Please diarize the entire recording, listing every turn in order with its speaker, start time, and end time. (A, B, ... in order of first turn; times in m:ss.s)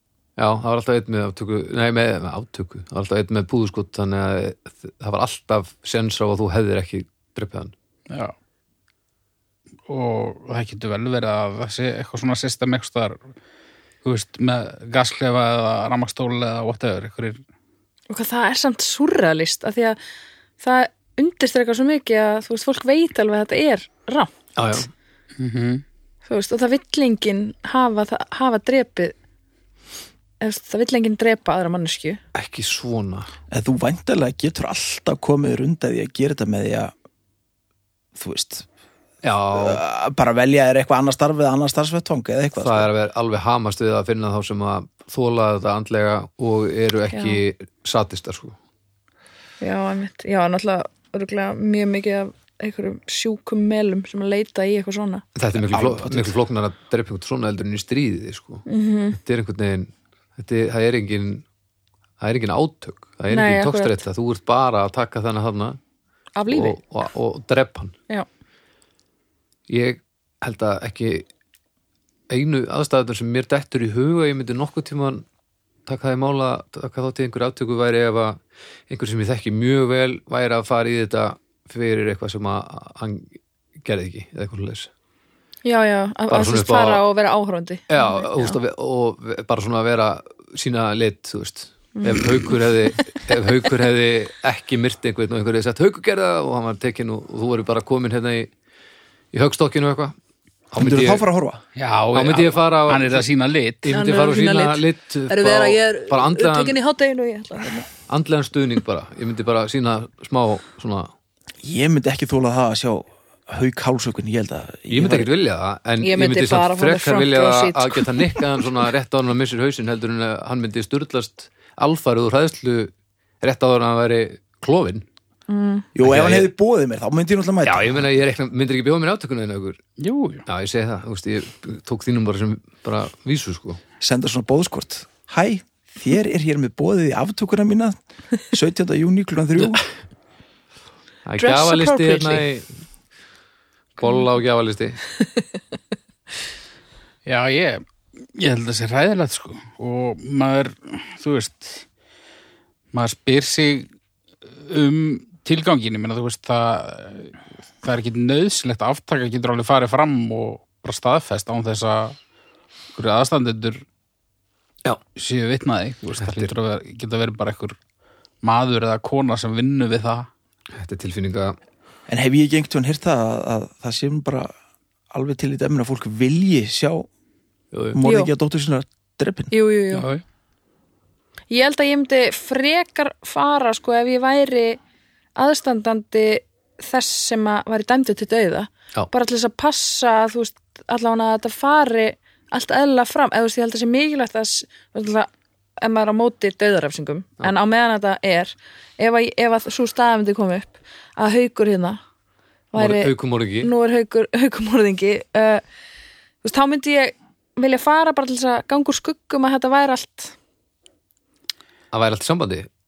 0:00.4-0:07.7 A
0:08.1-0:08.3 B
0:09.9-0:13.2 B
0:14.0-0:17.4 B
0:18.1-0:20.0 C
0:20.6-0:24.3 C
0:24.6-0:24.9 A
0:25.4-0:25.8 B
0:26.2-0:29.1 C
0:30.4-0:32.2 C
0:32.3-0:33.3 A
0:33.5-0:36.9 D
0:38.2-0:38.6 D
0:39.2-0:39.8 A
0:39.5-0:42.9 D
0:42.6-0:48.6 A
0:47.1-0:47.4 C
0:49.6-0:55.2 C
0:55.3-1:01.4 A
0:55.5-0:56.3 D
0:58.6-0:59.2 C
1:02.2-1:05.8 A
1:03.3-1:04.0 C
1:06.4-1:06.8 C
1:06.5-1:07.9 A
1:09.7-1:11.3 A
1:12.3-1:15.2 A
1:15.8-1:23.3 A
1:23.8-1:24.9 A
1:25.6-1:28.6 C
1:26.3-1:27.0 A
1:27.9-1:38.5 A
1:32.0-1:32.5 C
1:39.3-1:40.2 A
1:40.7-1:41.2 A
1:40.8-1:41.6 D
1:41.8-1:43.9 B
1:42.1-1:43.2 A
1:43.8-1:46.8 A
1:43.9-1:47.9 C
1:48.1-1:51.1 A
1:51.6-1:55.3 D
1:54.9-2:05.0 A
1:56.0-1:58.4 C
2:05.5-2:05.9 C
2:05.9-2:08.1 D
2:06.0-2:06.5 A
2:07.6-2:09.8 A
2:10.0-2:10.4 B
2:10.5-2:13.8 A
2:14.0-2:19.8 D
2:21.2-2:22.7 A
2:21.4-2:22.4 C
2:24.0-2:25.0 A
2:27.2-2:27.8 B
2:28.3-2:31.8 B
2:32.9-2:33.9 B
2:34.6-2:42.2 B
2:42.9-2:43.8 B
2:45.2-2:47.8 B
2:46.2-2:46.5 A
2:48.4-2:50.3 B
2:50.7-2:51.6 A
2:52.1-2:54.5 D
2:55.1-2:57.1 D
2:57.7-2:58.0 A
2:57.9-2:59.5 D
2:58.0-2:58.3 C
2:59.5-3:00.1 C
2:59.9-3:00.2 B
3:01.5-3:04.8 C
3:05.4-3:22.0 C
3:22.7-3:25.6 C
3:22.7-3:23.7 A
3:26.4-3:30.3 C
3:31.9-3:32.7 A